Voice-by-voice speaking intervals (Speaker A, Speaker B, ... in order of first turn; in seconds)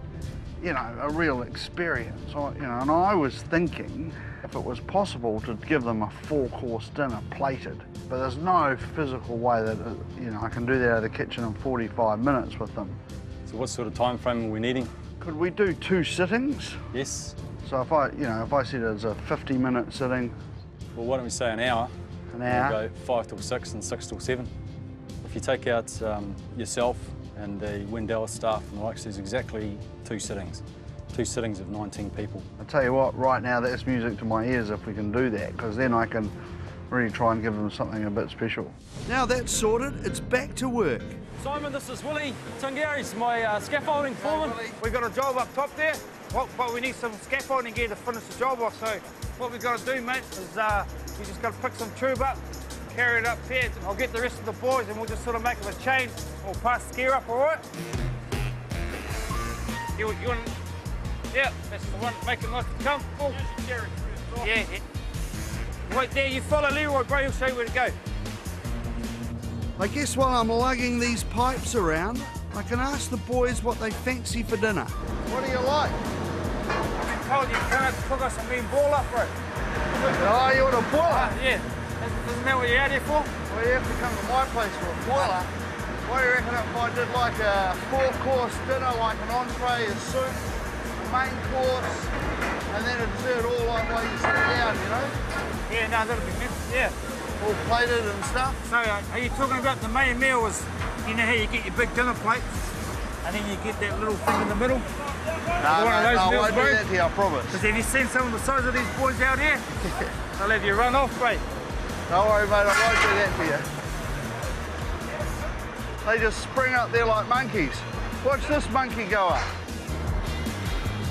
Speaker A: 0.6-13.0, 15.2-16.8, 17.6-20.4, 22.3-22.8, 32.6-36.4, 36.9-38.8, 44.2-44.8, 75.3-76.0, 80.1-81.4, 83.5-85.5, 86.1-90.4, 91.0-92.1, 92.7-95.1, 97.4-98.7, 105.6-107.6, 112.1-113.7, 116.0-119.5
Speaker B: 13.5-14.9, 16.9-17.4, 20.9-21.9, 22.5-24.5, 25.2-32.5
Speaker C: 39.1-41.2, 69.8-75.0
Speaker D: 41.4-44.6
Speaker E: 44.8-52.4, 52.9-57.6, 60.0-60.5, 61.3-64.8, 65.9-68.0, 77.0-79.3, 81.0-83.3, 95.7-96.9, 98.7-102.5, 103.2-104.9, 105.6-106.8, 107.5-109.7, 110.4-111.4